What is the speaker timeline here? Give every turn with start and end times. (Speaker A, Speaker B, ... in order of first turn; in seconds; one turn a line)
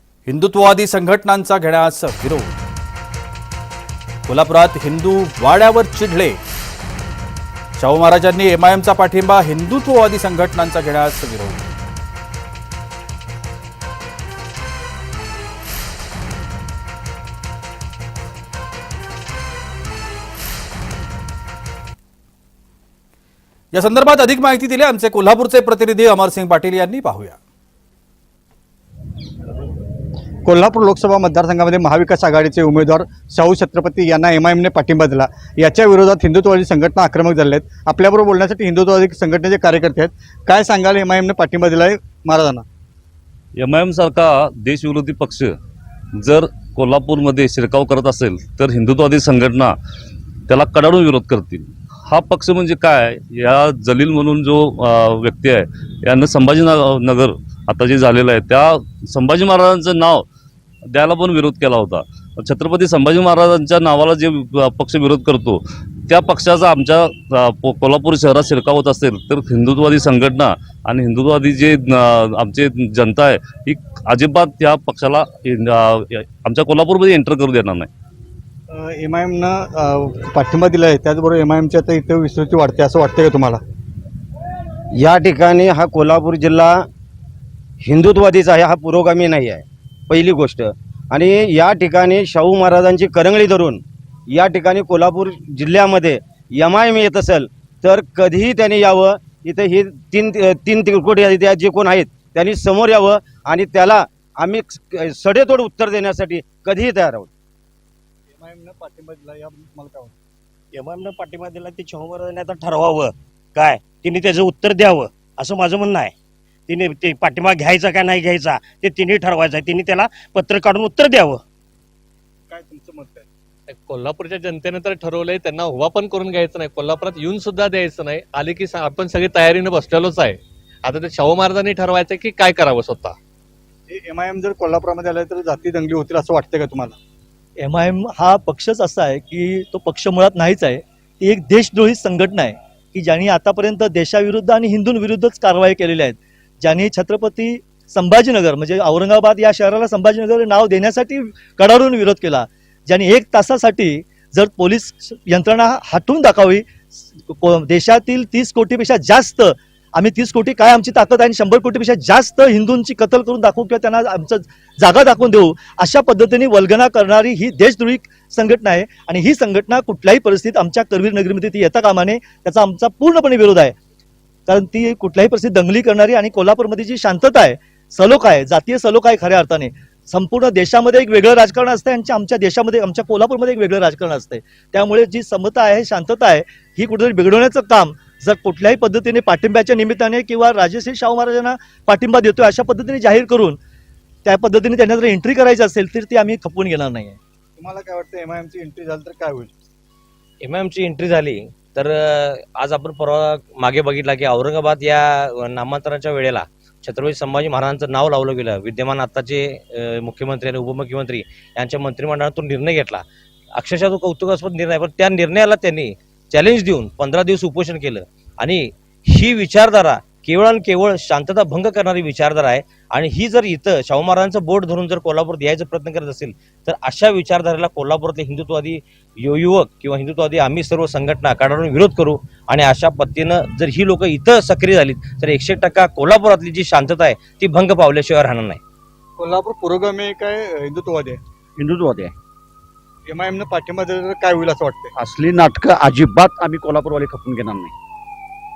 Speaker A: 0.2-2.6
Speaker A: 4.2-6.4
Speaker A: 7.8-11.7
Speaker A: 23.7-27.4
Speaker B: 30.4-42.6
Speaker C: 43.6-45.5
Speaker C: 46.2-49.7
Speaker C: 50.5-60.2
Speaker C: 60.9-77.9
Speaker B: 78.7-83.6
Speaker D: 85.0-86.8
Speaker D: 87.8-93.8
Speaker D: 94.3-107.3
Speaker B: 108.3-110.1
Speaker E: 110.7-116.1
Speaker E: 116.7-121.4
Speaker B: 122.5-123.3
Speaker F: 123.7-133.2
Speaker B: 133.9-136.9
Speaker G: 137.6-173.8
Speaker G: 174.5-193.6
Speaker G: 194.2-197.2
Speaker B: 197.6-199.5
Speaker H: 200.4-213.0
Speaker H: 213.5-238.6
Speaker B: 239.2-241.2
Speaker I: 241.6-242.1
Speaker B: 243.1-244.9
Speaker I: 244.9-247.7